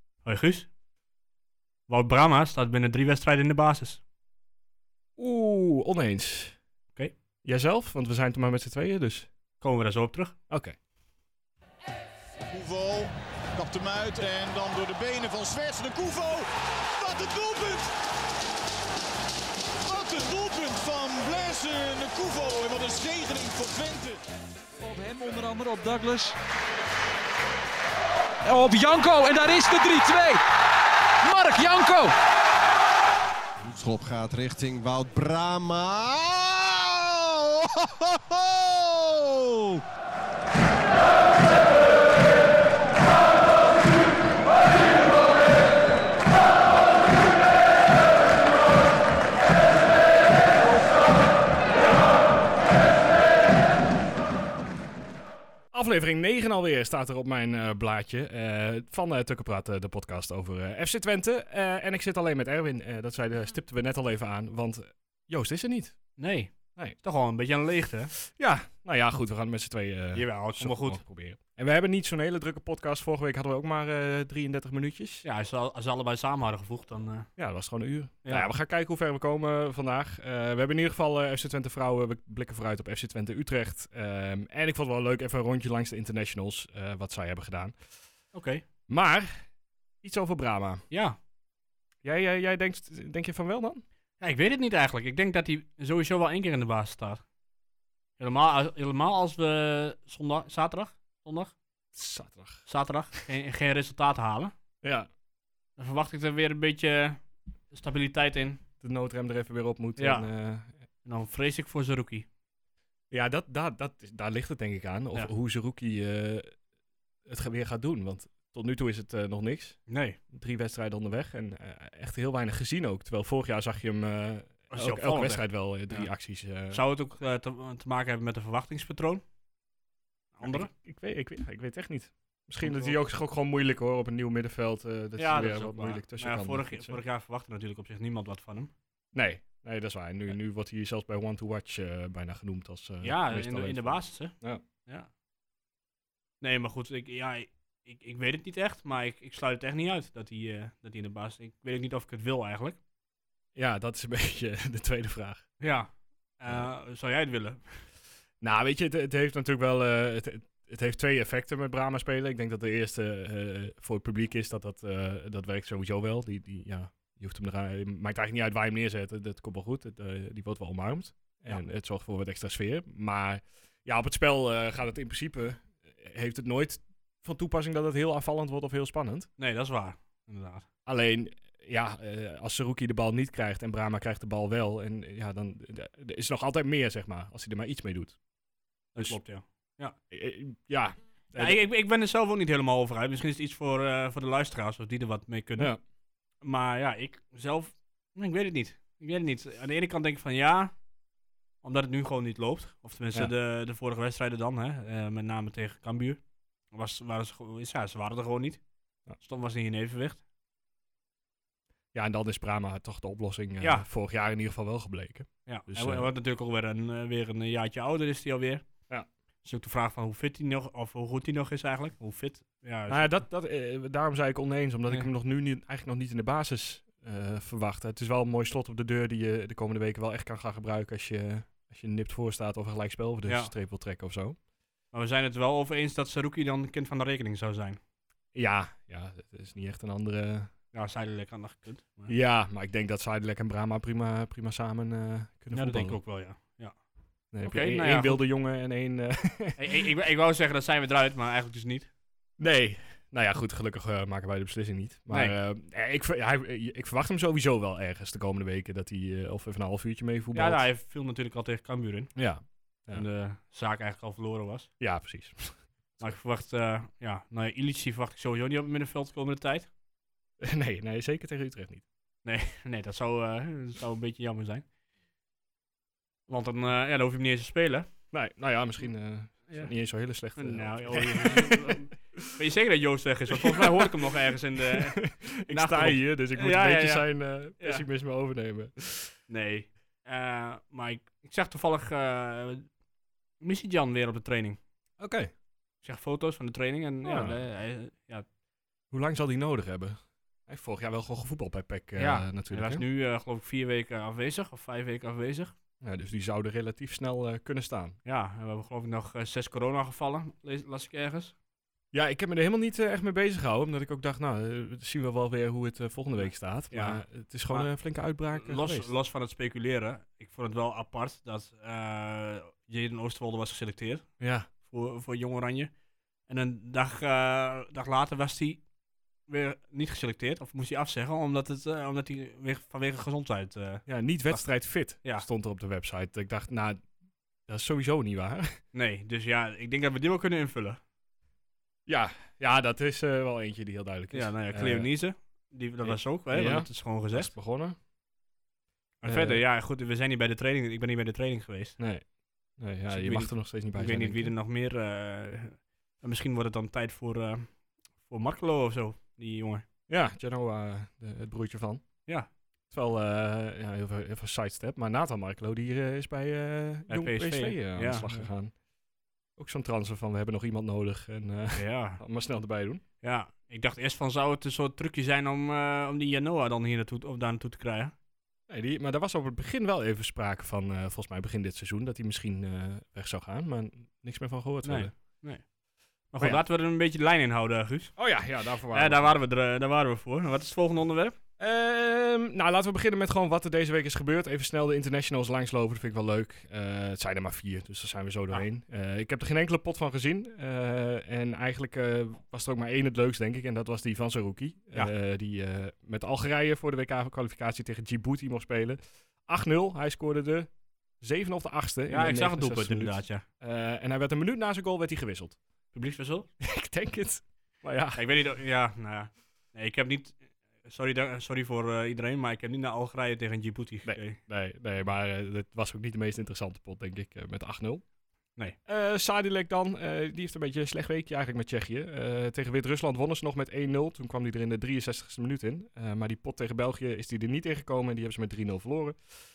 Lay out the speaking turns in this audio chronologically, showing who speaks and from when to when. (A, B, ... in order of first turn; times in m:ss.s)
0:00.2-0:00.7 A
0:01.9-0:04.0 A
0:05.2-0:06.6 B
0:07.4-0:09.3 B
0:09.6-0:10.4 A
0:10.5-0:10.8 B
0:12.5-0:17.9 C
0:19.8-0:24.2 C
0:24.8-0:26.4 D
0:28.4-0:30.4 D
0:31.2-0:32.1 D
0:33.6-0:39.8 E
0:55.7-1:06.0 B
1:06.2-1:08.1 A
1:08.2-1:15.2 B
1:10.1-1:11.0 A
1:15.2-1:17.3 A
1:17.4-1:27.8 B
1:28.3-1:28.6 A
1:28.9-1:29.4 B
1:30.0-1:30.8 B
1:30.9-1:31.2 A
1:32.0-1:33.8 B
1:34.2-1:37.2 A
1:38.2-1:41.5 A
1:41.9-1:42.6 B
1:42.7-1:44.5 A
1:44.8-1:45.1 B
1:45.8-1:48.6 A
1:48.8-1:50.7 B
1:50.0-1:50.3 A
1:51.0-1:52.2 A
1:53.1-1:56.6 B
1:57.2-1:59.8 B
1:59.9-2:00.2 A
2:00.3-2:06.8 B
2:04.7-2:06.1 A
2:06.7-2:09.2 A
2:10.3-2:10.7 A
2:10.4-2:17.0 B
2:12.6-2:13.0 A
2:15.2-2:18.7 A
2:19.1-2:24.6 B
2:23.0-2:25.1 A
2:26.4-2:32.8 A
2:33.5-2:35.5 B
2:35.6-2:37.8 A
2:38.4-2:59.3 B
2:59.4-3:00.7 A
3:00.8-3:08.2 B
3:08.9-3:09.9 A
3:10.1-3:11.6 B
3:11.4-3:15.7 A
3:16.4-3:20.7 A
3:21.6-3:26.2 A
3:26.7-3:28.6 A
3:29.2-3:30.2 A
3:31.9-3:36.1 B
3:33.6-3:33.8 A
3:35.4-3:38.6 A
3:39.4-3:43.1 A
3:42.9-3:54.4 B
3:53.3-3:53.5 A
3:54.9-3:57.8 A
3:58.3-4:00.5 B
4:00.7-4:02.1 A
4:02.1-4:06.0 B
4:05.5-4:06.8 A
4:07.3-4:09.8 B
4:07.4-4:08.2 A
4:09.6-4:11.9 A
4:12.4-4:20.6 B
4:15.1-4:15.3 A
4:20.3-4:22.1 A
4:22.2-4:23.0 B
4:22.9-4:24.7 A
4:24.8-4:26.1 B
4:26.0-4:29.7 A
4:30.4-4:31.8 B
4:32.2-4:34.7 A
4:36.3-4:37.9 A
4:38.1-4:42.4 B
4:40.4-4:47.1 A
4:43.3-4:44.1 B
4:44.7-4:49.2 B
4:47.6-4:47.8 A
4:49.3-4:52.7 A
4:53.4-4:54.6 A
4:55.0-4:55.3 B
4:55.8-4:58.2 A
4:57.0-4:57.4 B
4:58.9-5:02.8 B
5:02.0-5:05.5 A
5:05.8-5:08.0 B
5:08.0-5:11.4 A
5:11.9-5:18.9 B
5:16.2-5:17.7 A
5:18.3-5:24.1 A
5:24.2-5:24.5 B
5:24.6-5:25.7 A
5:26.3-5:28.6 A
5:29.3-5:34.4 A
5:33.9-5:36.8 B
5:37.5-5:38.6 B
5:38.7-5:40.8 A
5:41.9-5:44.9 B
5:44.1-5:47.3 A
5:45.8-5:47.8 B
5:49.0-5:51.8 A
5:49.0-5:49.4 B
5:51.8-5:52.0 B
5:52.6-5:54.3 B
5:52.9-5:59.6 A
5:59.9-6:01.9 B
6:02.7-6:08.5 B
6:06.9-6:08.3 A
6:09.4-6:12.8 B
6:11.6-6:12.0 A
6:13.0-6:17.9 A
6:18.5-6:24.9 B
6:24.6-6:25.4 A
6:26.1-6:27.9 A
6:28.0-6:29.2 B
6:28.7-6:31.2 A
6:31.4-6:50.5 B
6:51.0-6:55.4 B
6:51.9-6:53.2 A
6:55.7-6:56.3 A
6:56.4-6:58.0 B
6:57.9-7:04.2 A
7:03.8-7:07.8 B
7:08.7-7:19.0 B